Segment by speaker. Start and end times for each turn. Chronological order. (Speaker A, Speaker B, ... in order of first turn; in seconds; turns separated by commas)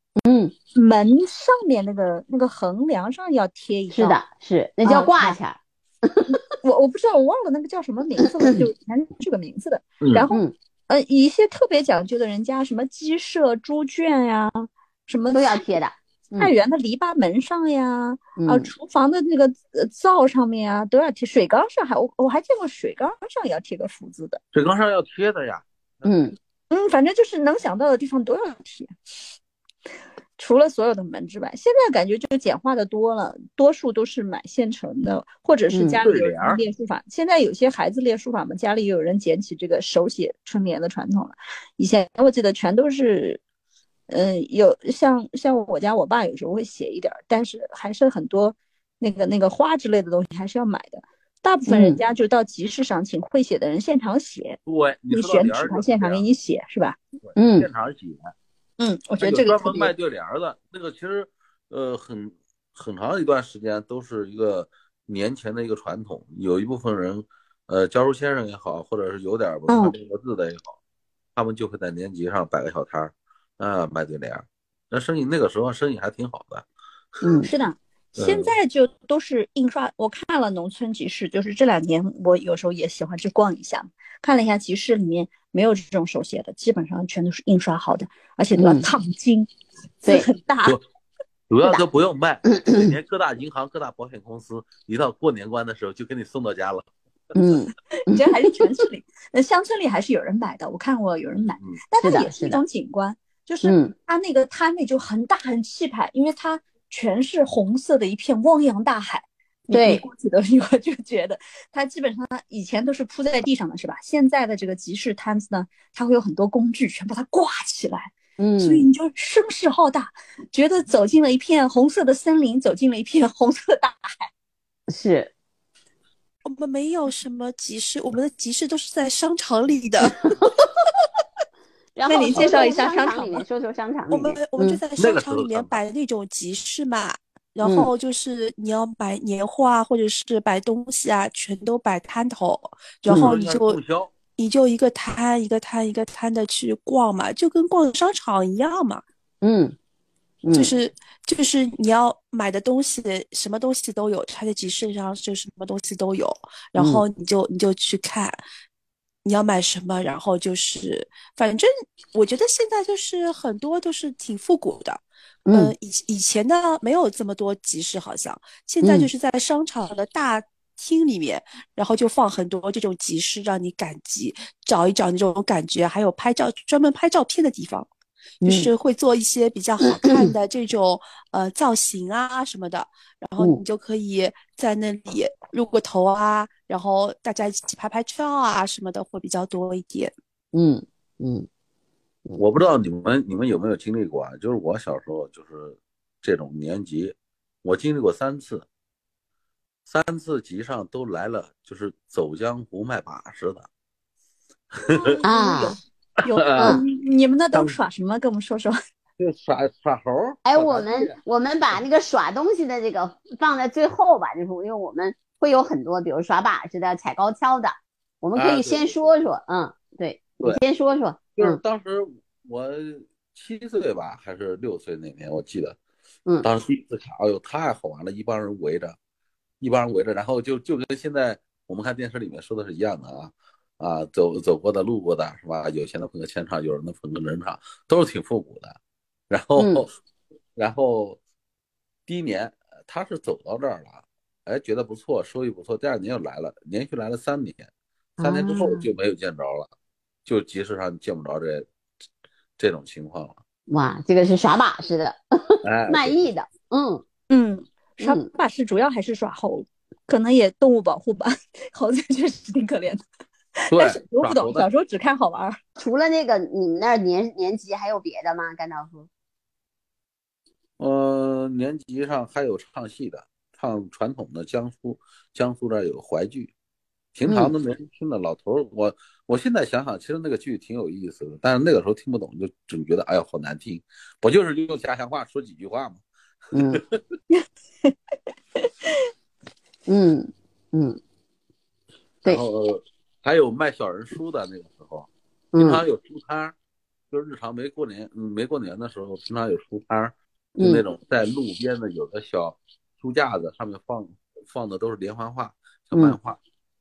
Speaker A: 0.2-0.6, Speaker B: 0.8-4.2, Speaker A: 3.9-6.4, Speaker B: 4.8-5.4, Speaker B: 6.6-15.6, Speaker C: 10.0-10.3, Speaker A: 15.3-16.5, Speaker B: 16.4-24.4, Speaker A: 18.4-18.7, Speaker C: 24.5-26.3, Speaker A: 26.1-26.4, Speaker B: 26.7-28.9, Speaker B: 30.4-43.4, Speaker A: 35.7-36.0, Speaker C: 36.0-36.6, Speaker B: 44.1-54.6, Speaker A: 51.7-52.0, Speaker C: 54.7-56.2, Speaker B: 55.1-57.0, Speaker C: 57.3-58.3, Speaker A: 57.4-57.7, Speaker B: 58.8-59.9, Speaker C: 59.2-70.8, Speaker B: 69.7-70.0, Speaker C: 71.4-77.4, Speaker A: 77.2-77.5, Speaker B: 77.4-89.5, Speaker C: 78.2-78.5, Speaker A: 88.6-88.9, Speaker B: 90.0-90.8, Speaker C: 91.5-96.9, Speaker A: 92.6-92.9, Speaker A: 97.3-98.2, Speaker B: 98.1-124.3, Speaker A: 102.0-102.6, Speaker A: 103.6-103.9, Speaker A: 109.7-110.0, Speaker A: 118.4-118.9, Speaker A: 124.9-125.3, Speaker D: 126.5-130.2, Speaker A: 131.9-134.8, Speaker B: 132.1-133.4, Speaker D: 134.1-143.8, Speaker C: 135.0-135.8, Speaker A: 137.6-137.9, Speaker C: 143.1-144.1, Speaker D: 144.4-149.0, Speaker A: 149.4-149.8, Speaker A: 150.4-150.8, Speaker D: 150.5-158.4, Speaker A: 156.8-157.0, Speaker D: 159.2-177.9, Speaker A: 165.5-165.7, Speaker A: 168.8-169.1, Speaker D: 178.4-190.1, Speaker A: 178.4-178.7, Speaker A: 180.0-180.3, Speaker A: 190.5-191.5, Speaker C: 192.4-198.7, Speaker C: 199.9-203.7, Speaker C: 204.7-205.2, Speaker B: 204.9-208.8, Speaker A: 205.2-205.8, Speaker C: 206.3-206.8, Speaker A: 206.6-206.8, Speaker C: 207.5-207.8, Speaker C: 209.2-211.2, Speaker A: 210.4-221.6, Speaker C: 218.4-219.0, Speaker C: 221.4-225.8, Speaker C: 226.4-229.0, Speaker C: 229.6-238.8, Speaker C: 239.3-239.9, Speaker A: 239.6-239.8, Speaker C: 240.6-241.2, Speaker C: 242.1-247.7, Speaker A: 248.2-248.9, Speaker C: 248.2-249.7, Speaker C: 250.3-251.7, Speaker C: 252.6-253.4, Speaker A: 253.7-257.0, Speaker C: 255.6-256.2, Speaker B: 257.3-263.0, Speaker B: 263.6-265.6, Speaker C: 263.7-264.7, Speaker A: 265.8-269.1, Speaker C: 270.8-276.5, Speaker C: 277.1-286.0, Speaker A: 277.3-277.5, Speaker A: 286.5-286.8, Speaker C: 286.6-287.0, Speaker B: 287.3-287.9, Speaker B: 288.6-288.9, Speaker A: 289.9-291.0, Speaker C: 292.2-296.6, Speaker A: 295.5-295.8, Speaker C: 297.1-306.4, Speaker A: 300.6-300.8